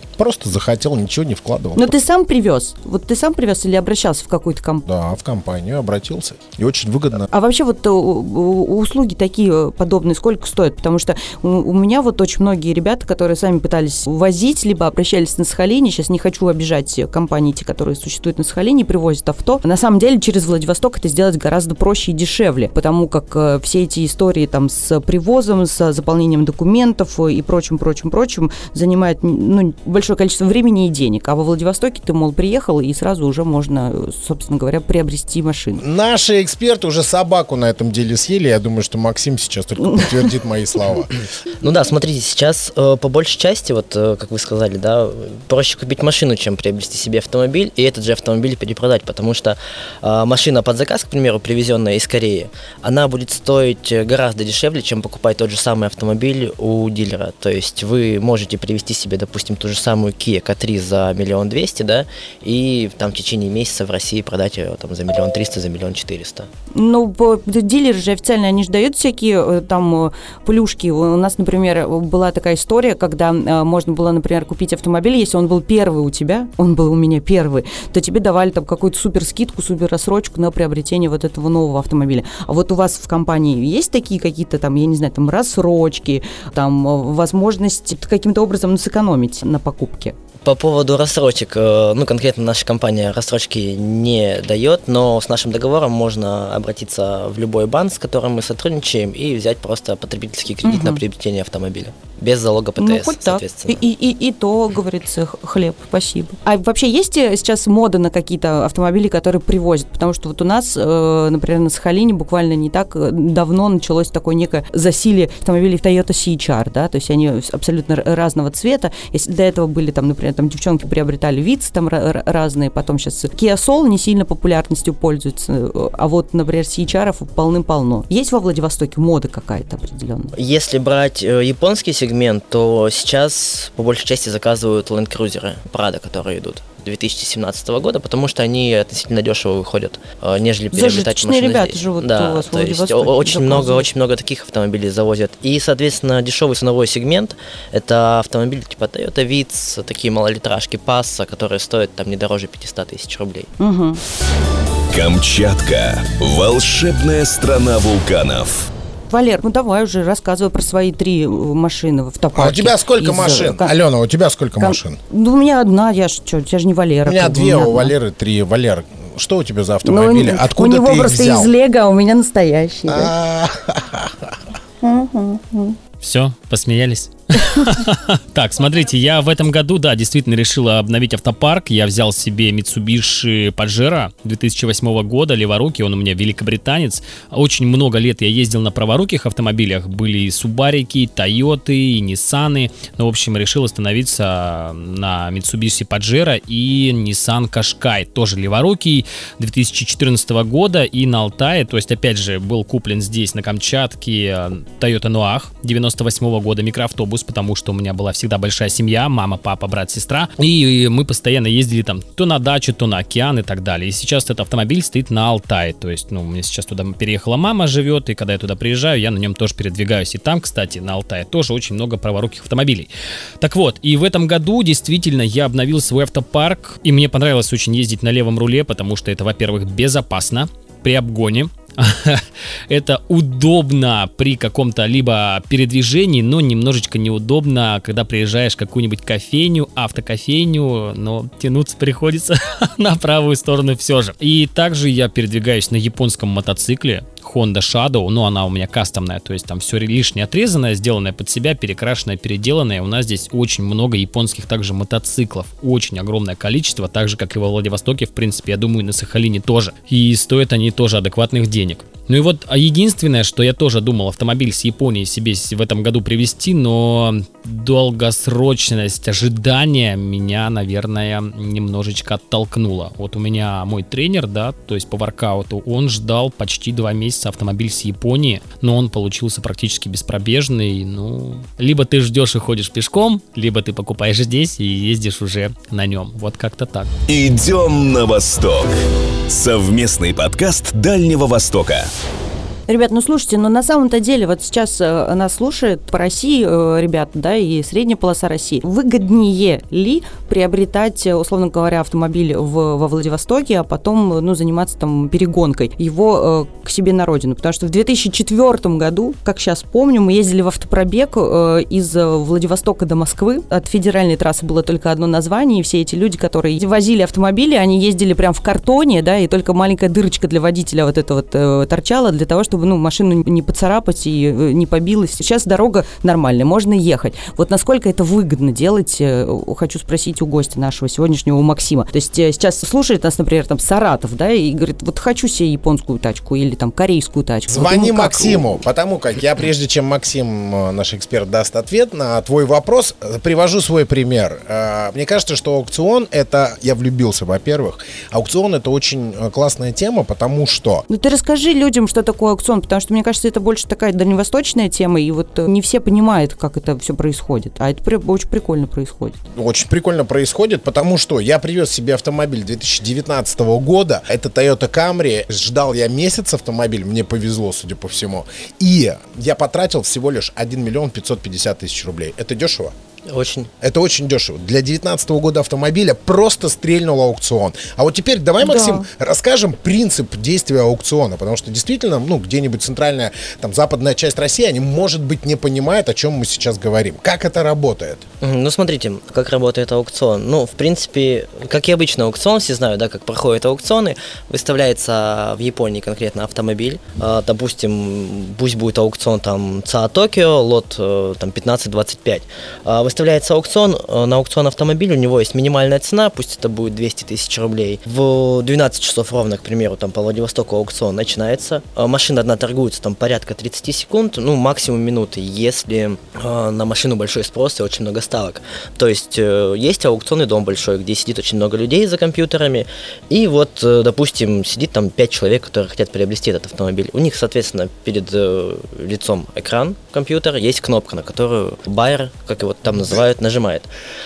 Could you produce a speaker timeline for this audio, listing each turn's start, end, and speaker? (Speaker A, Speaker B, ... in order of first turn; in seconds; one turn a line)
Speaker A: 0.2-1.9
Speaker B: 1.8-4.8
Speaker A: 4.9-7.2
Speaker B: 7.3-35.8
Speaker A: 35.8-41.1
Speaker C: 41.6-66.5
Speaker B: 66.7-90.1
Speaker C: 90.4-103.8
Speaker B: 100.6-101.0
Speaker B: 102.8-130.3
Speaker C: 130.3-153.5
Speaker B: 140.7-143.9
Speaker B: 153.6-154.0
Speaker D: 154.9-158.7
Speaker B: 159.1-163.8
Speaker A: 162.3-165.0
Speaker B: 164.6-167.9
Speaker A: 167.1-171.5
Speaker B: 169.8-173.1
Speaker A: 172.9-174.3
Speaker B: 174.8-175.8
Speaker E: 176.0-222.9
Speaker E: 223.4-286.9
Speaker D: 287.1-288.7
Speaker D: 289.3-291.9
Speaker B: 292.7-338.5
Speaker A: 337.5-350.8
Speaker B: 350.9-359.2
Speaker A: 359.3-372.8
Speaker C: 373.1-373.5
Speaker A: 373.6-388.1
Speaker B: 378.4-378.9
Speaker C: 388.2-433.7